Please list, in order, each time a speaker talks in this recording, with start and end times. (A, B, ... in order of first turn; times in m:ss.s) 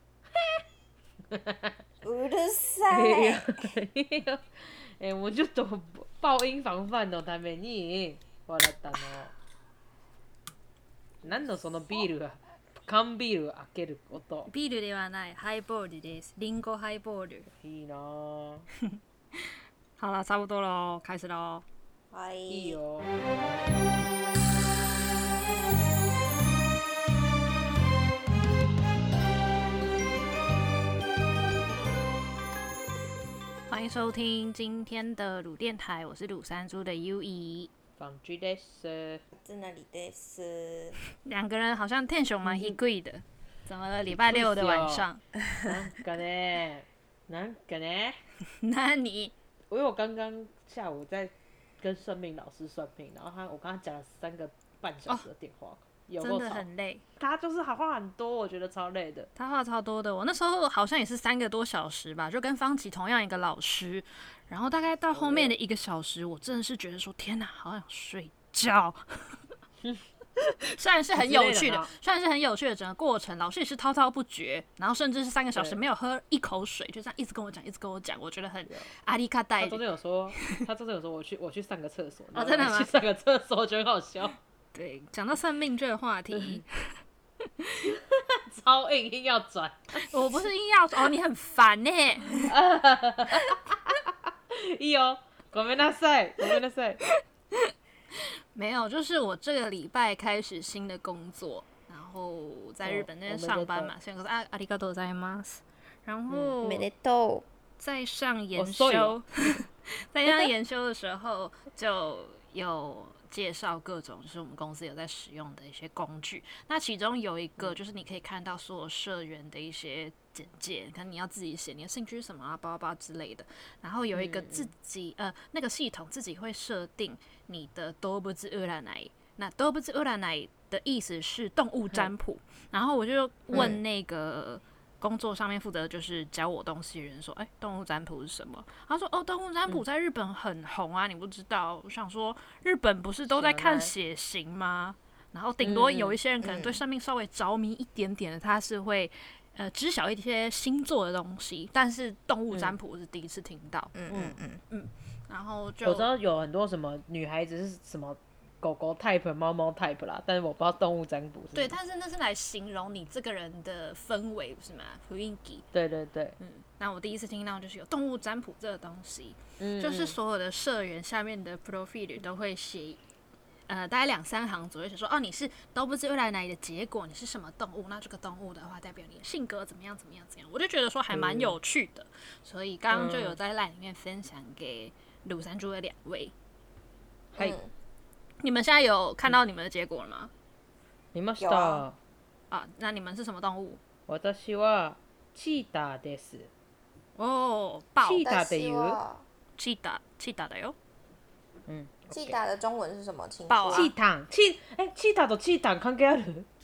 0:00.3-0:00.6 A
0:01.3-0:01.8 A
0:02.0-0:03.7 B
0:02.9-0:09.3 A
0:11.2-0:14.5 A
0:14.5-0:17.5 C
0:17.5-0:18.7 A
0:20.0-0:21.6 C
0:22.1-0:22.8 B
0:22.5-0:23.1 A
0:33.7-0:37.7 C
0:38.0-0:39.2 A
0:39.4-0:41.0 B
0:41.2-0:45.2 C
0:42.4-0:42.8 A
0:44.1-0:45.0 A
0:45.6-0:48.2 A
0:48.6-0:49.3 C
0:49.7-0:56.6 A
0:56.2-0:57.0 C
0:57.2-0:59.3 A
0:59.4-1:09.4 C
1:05.1-1:05.6 A
1:10.4-1:19.8 C
1:11.2-1:11.9 A
1:19.6-1:24.4 A
1:22.3-1:22.9 C
1:24.7-1:27.0 C
1:26.3-1:26.6 A
1:27.8-1:30.2 A
1:29.9-1:32.5 C
1:32.4-1:37.0 A
1:38.5-1:46.9 C
1:42.8-1:43.9 A
1:46.6-1:47.4 B
1:47.8-2:33.9 C
1:48.5-1:49.2 A
2:04.1-2:04.7 A
2:13.5-2:13.8 A
2:23.3-2:23.9 A
2:25.6-2:26.2 A
2:26.4-2:26.8 B
2:33.9-2:34.6 B
2:34.1-2:34.4 A
2:34.7-2:36.1 C
2:35.8-2:41.7 A
2:41.5-2:45.6 C
2:45.7-2:46.4 A
2:46.4-2:53.0 C
2:49.6-2:50.2 A
2:53.7-3:06.3 C
3:01.1-3:01.6 A
3:02.9-3:03.4 A
3:07.4-3:07.7 B
3:08.4-3:10.3 C
3:11.1-3:12.0 A
3:11.4-3:11.8 B
3:12.5-3:13.8 C
3:14.1-3:16.5 A
3:17.2-3:18.3 C
3:18.0-3:19.0 A
3:18.2-3:19.2 B
3:19.6-3:20.7 C
3:21.7-3:22.4 A
3:22.1-3:23.9 B
3:23.5-3:23.9 C
3:23.7-3:26.5 A